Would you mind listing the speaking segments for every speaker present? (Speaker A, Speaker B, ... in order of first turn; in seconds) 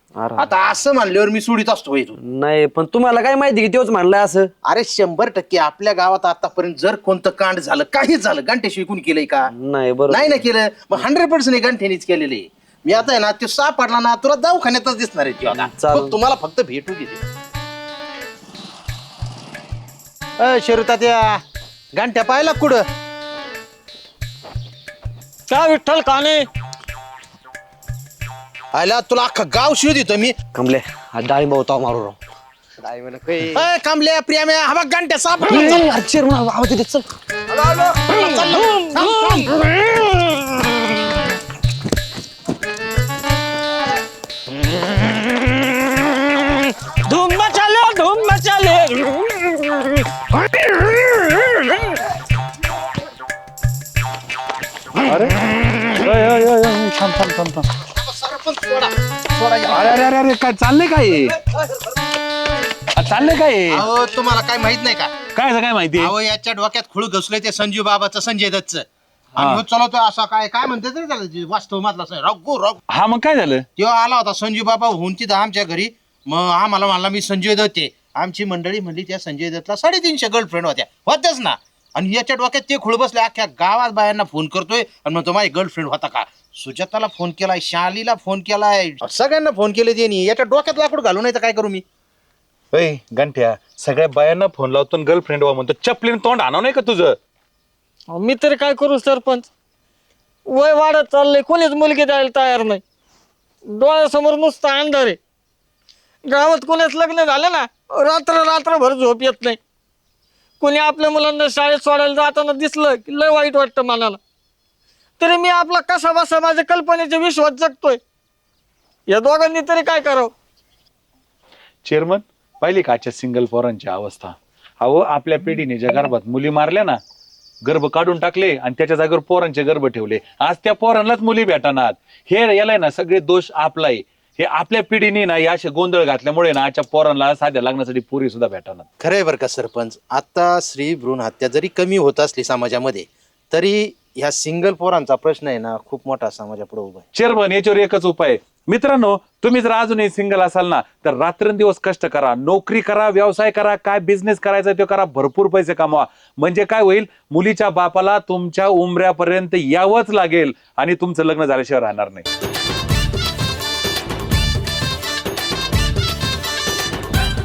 Speaker A: 0.2-0.5, 2.2-4.5, 9.6-10.2, 15.5-16.1, 30.5-32.1, 32.8-33.5, 35.5-37.0
Speaker B: 0.4-2.1, 4.7-9.5, 10.1-17.2, 20.4-21.4, 22.0-22.8, 28.7-30.3, 33.5-35.9, 38.0-39.5, 57.9-60.0, 63.7-65.1, 65.9-68.8, 69.3-72.8, 73.8-91.8, 139.0-147.0
Speaker C: 25.5-26.4, 38.1-40.0, 46.9-50.0, 98.1-99.5, 100.5-102.8, 103.7-105.2, 106.2-109.6, 110.6-114.2, 115.2-118.0, 119.1-120.3
Speaker D: 55.0-57.7, 59.7-61.4, 62.9-63.8, 65.3-66.1, 69.4-69.6, 72.9-73.6, 92.7-97.2, 121.8-127.0, 127.7-138.8, 147.1-162.2